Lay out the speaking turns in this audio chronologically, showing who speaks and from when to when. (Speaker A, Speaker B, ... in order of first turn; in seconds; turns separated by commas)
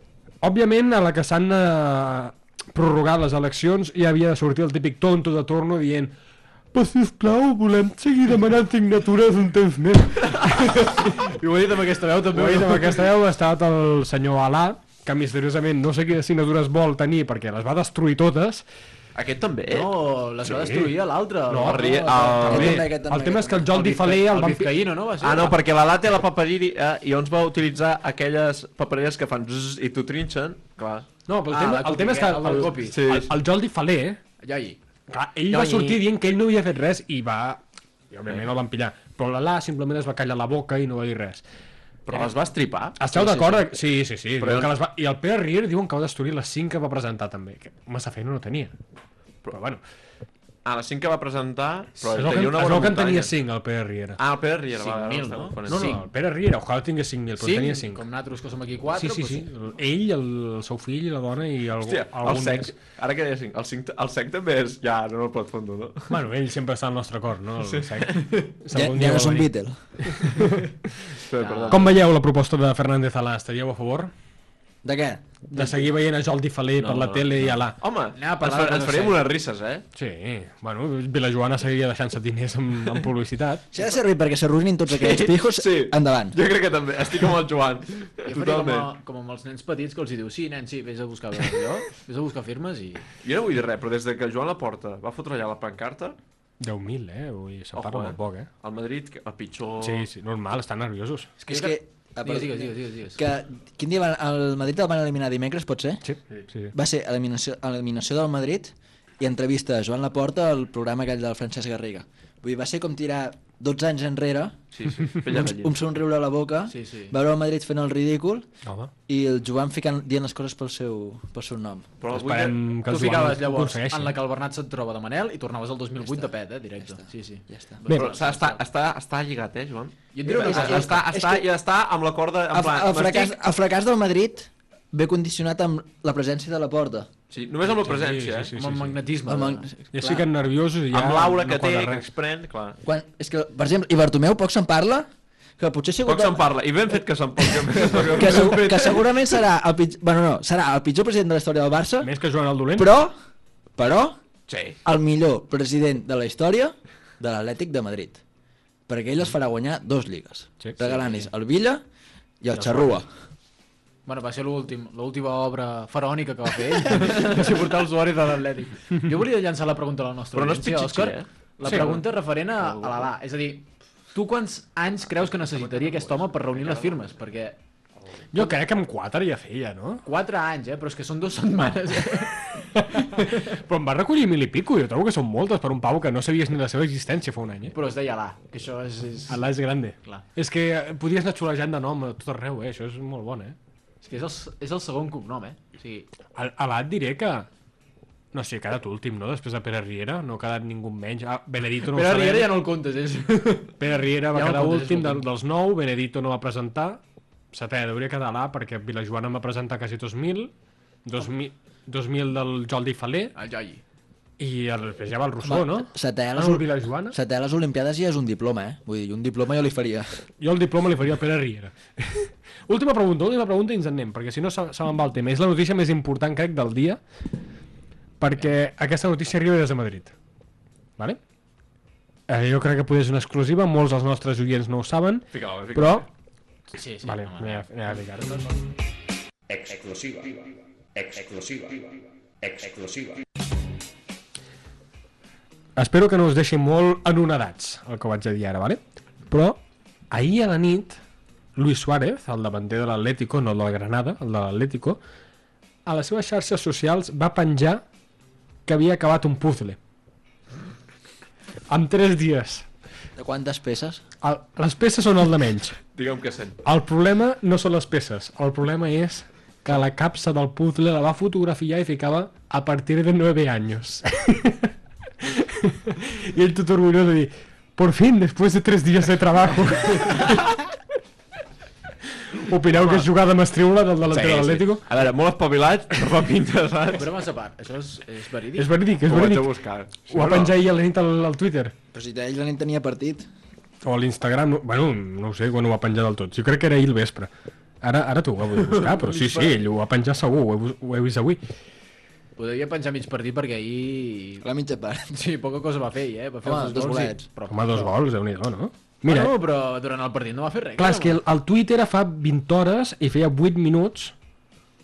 Speaker A: 0.4-6.2, Speaker A: 6.7-10.9, Speaker B: 10.5-13.1, Speaker A: 12.3-18.6, Speaker C: 19.1-20.0, Speaker B: 19.7-22.5, Speaker A: 20.4-20.9, Speaker A: 21.5-24.7, Speaker C: 21.6-22.9, Speaker D: 22.4-23.7, Speaker B: 23.7-25.6, Speaker C: 25.2-31.1, Speaker A: 31.3-34.2, Speaker B: 31.5-33.0, Speaker C: 32.9-33.3, Speaker B: 34.4-34.8, Speaker A: 35.1-41.4, Speaker B: 35.5-36.0, Speaker C: 42.1-43.0, Speaker B: 42.1-42.4, Speaker A: 43.0-48.8, Speaker B: 43.1-43.6, Speaker C: 44.4-44.8, Speaker A: 49.5-49.8, Speaker C: 50.6-53.4, Speaker A: 52.1-54.2, Speaker C: 54.2-55.9, Speaker B: 54.8-56.1, Speaker A: 55.7-58.0, Speaker B: 57.4-59.5, Speaker A: 58.9-62.7, Speaker C: 61.8-66.2, Speaker A: 66.1-69.5, Speaker C: 67.6-68.4, Speaker D: 68.7-69.8, Speaker A: 70.3-70.6, Speaker C: 71.3-71.9, Speaker B: 71.4-72.0, Speaker A: 71.7-74.1, Speaker D: 74.8-75.3, Speaker A: 75.5-77.8, Speaker B: 75.5-75.8, Speaker C: 76.8-79.8, Speaker B: 78.1-79.3, Speaker A: 80.0-83.7, Speaker D: 83.7-86.4, Speaker C: 84.9-88.9, Speaker B: 88.3-93.1, Speaker C: 93.2-96.2, Speaker A: 96.6-98.5, Speaker C: 97.8-100.1, Speaker A: 99.8-101.3, Speaker D: 101.4-106.0, Speaker B: 101.5-103.2, Speaker A: 106.0-106.7, Speaker D: 106.7-114.7, Speaker C: 114.7-115.8, Speaker D: 115.3-118.5, Speaker B: 116.7-117.1, Speaker A: 118.7-118.9, Speaker D: 119.1-121.9, Speaker C: 122.0-122.6, Speaker A: 122.1-124.2, Speaker B: 122.8-128.6, Speaker D: 126.0-127.8, Speaker A: 127.9-128.1, Speaker C: 127.9-133.4, Speaker B: 130.1-131.1, Speaker D: 130.2-131.4, Speaker D: 132.5-137.1, Speaker C: 137.3-138.6, Speaker A: 137.7-139.0, Speaker B: 138.6-139.7, Speaker D: 139.3-140.3, Speaker A: 139.9-142.0, Speaker C: 140.9-142.8, Speaker D: 142.8-146.4, Speaker C: 146.1-149.3, Speaker D: 147.4-152.1, Speaker A: 152.0-152.9, Speaker D: 152.7-153.2, Speaker D: 153.8-154.2, Speaker C: 154.5-154.8, Speaker D: 154.8-158.2, Speaker D: 158.9-161.8, Speaker D: 162.4-163.1, Speaker B: 164.1-177.6, Speaker C: 170.3-173.1, Speaker C: 175.2-177.2, Speaker A: 178.3-180.1, Speaker B: 180.1-183.3, Speaker A: 182.8-187.8, Speaker B: 187.7-189.5, Speaker A: 189.3-193.6, Speaker B: 194.0-196.1, Speaker A: 196.3-197.5, Speaker A: 198.3-202.6, Speaker B: 201.8-205.3, Speaker A: 203.8-207.0, Speaker A: 207.5-210.5, Speaker A: 211.1-213.3, Speaker B: 213.3-213.8, Speaker A: 214.4-217.2, Speaker D: 215.4-220.2, Speaker A: 220.4-227.0, Speaker A: 228.2-230.1, Speaker A: 232.3-236.1, Speaker C: 235.3-236.1, Speaker B: 236.7-238.0, Speaker A: 237.0-238.5, Speaker A: 245.8-249.6, Speaker A: 250.1-251.0, Speaker A: 251.6-255.0, Speaker A: 255.9-257.8, Speaker A: 258.7-259.8, Speaker A: 261.7-262.7, Speaker D: 263.2-264.0, Speaker A: 264.2-265.8, Speaker C: 265.9-266.6, Speaker A: 266.6-274.7, Speaker A: 275.2-280.4, Speaker A: 282.4-284.8, Speaker C: 282.7-283.1, Speaker C: 284.1-287.1, Speaker B: 286.9-288.8, Speaker A: 288.6-289.5, Speaker C: 289.1-290.6, Speaker A: 290.1-291.8, Speaker D: 291.9-293.3, Speaker A: 293.8-297.3, Speaker A: 297.8-301.4, Speaker B: 298.7-299.6, Speaker B: 302.4-304.5, Speaker D: 304.4-305.2, Speaker B: 305.1-308.0, Speaker D: 306.4-307.2, Speaker A: 307.5-309.3, Speaker B: 309.0-311.2, Speaker A: 310.8-314.1